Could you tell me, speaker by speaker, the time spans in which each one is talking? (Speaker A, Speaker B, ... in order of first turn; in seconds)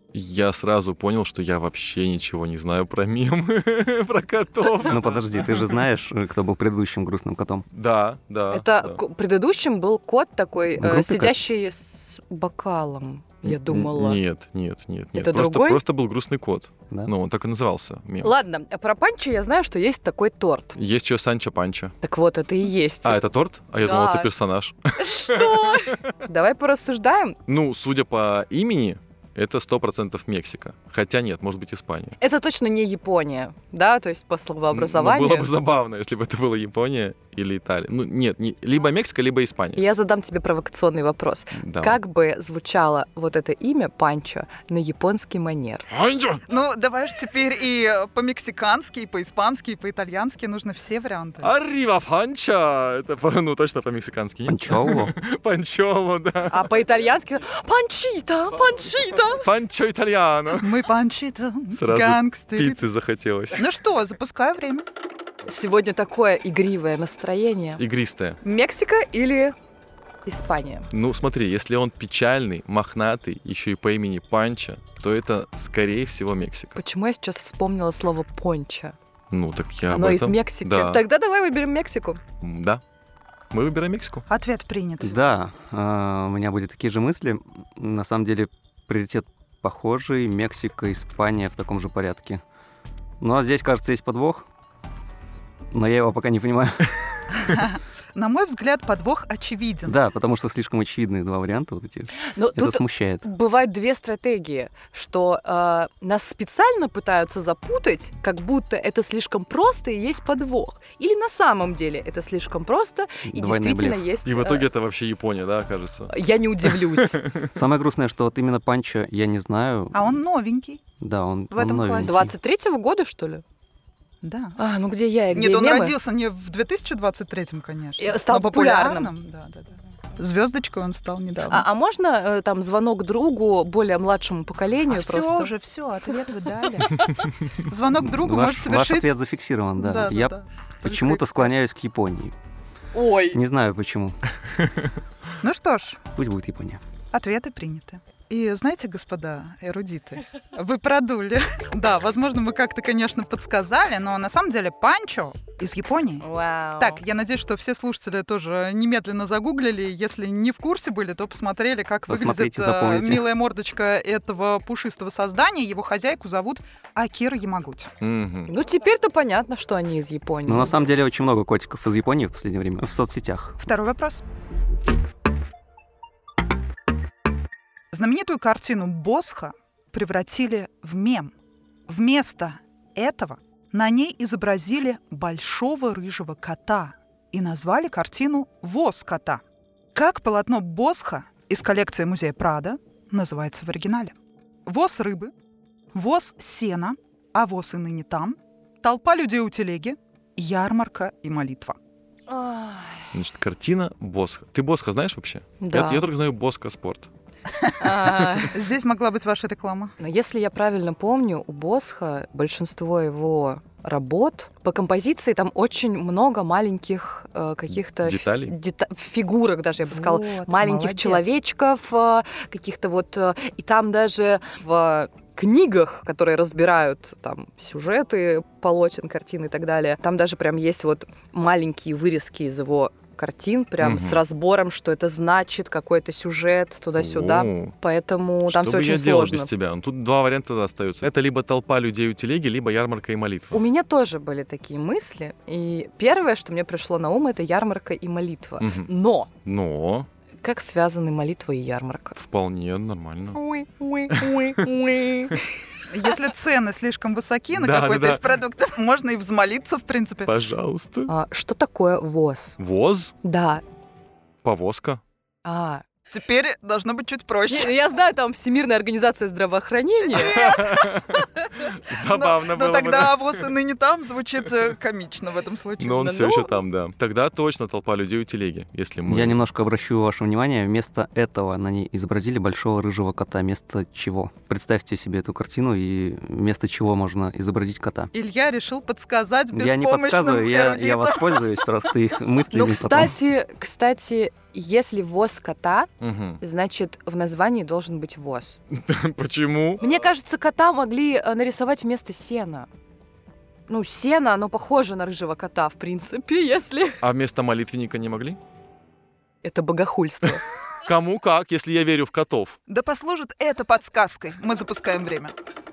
Speaker A: 0.1-5.7, 7.7-9.0, 13.4-18.3, 20.8-21.9, 23.0-26.1, 27.5-32.2, 34.7-39.8, 41.5-42.0, 45.9-46.4, 51.4-56.7, 58.9-60.8, 61.7-63.7, 67.8-68.4, 70.9-76.8, 79.3-81.0, 82.4-82.8, 83.5-84.3, 114.3-117.6, 168.0-168.5, 203.1-207.1, 218.0-218.6, 233.8-234.2, 237.0-237.8, 238.5-243.6, 248.6-248.9, 249.4-250.1, 252.2-253.4, 254.1-254.6, 257.5-258.2, 260.3-261.1, 262.6-263.1, 264.4-265.0, 270.2-273.5, 275.8-279.4, 296.0-296.4, 298.7-299.8, 307.0-308.4, 310.8-312.6
Speaker B: 4.9-7.7, 10.8-11.3, 54.5-55.2, 85.0-92.4, 93.2-94.5, 95.7-97.2, 99.8-103.2, 113.3-114.0, 117.6-120.2, 121.0-122.3, 138.0-142.3, 143.3-144.2, 146.1-146.8, 162.1-163.3, 170.5-173.6, 279.1-288.1, 289.5-293.1
Speaker C: 8.5-14.2, 15.2-15.8, 18.2-20.8, 22.0-23.2, 23.8-24.3, 25.0-27.4, 32.2-35.5, 39.8-45.9, 56.5-59.5, 65.5-67.8, 68.4-69.6, 70.3-70.9, 76.8-79.0, 79.9-82.2, 102.2-114.7, 116.1-117.2, 122.0-123.4, 124.6-126.0, 128.0-129.1, 131.5-135.5, 136.8-137.3, 142.9-143.4, 156.2-157.0, 168.5-170.8, 202.3-203.1, 205.6-206.1, 207.8-208.5, 210.0-239.5, 243.5-249.3, 250.4-252.2, 253.3-255.5, 261.1-262.6, 263.2-263.6, 265.4-265.8, 267.5-270.4, 275.9-276.6, 292.5-295.9, 296.4-298.6, 299.8-302.7, 303.7-307.0, 309.4-310.4
Speaker D: 46.5-51.5, 60.5-62.8, 63.6-64.9, 84.3-85.1, 97.4-100.0, 119.9-120.8, 121.5-122.2, 124.2-124.6, 125.3-131.7, 134.9-139.2, 139.8-141.5, 145.4-146.0, 147.1-156.2, 156.8-167.9, 173.6-174.2, 177.9-181.3, 181.9-189.4, 189.9-194.2, 194.7-195.3, 195.9-201.8, 207.6-207.9, 208.5-209.9, 219.9-221.3, 255.9-260.3, 266.1-267.7, 270.1-271.0, 272.1-276.1, 288.1-291.9, 312.7-315.3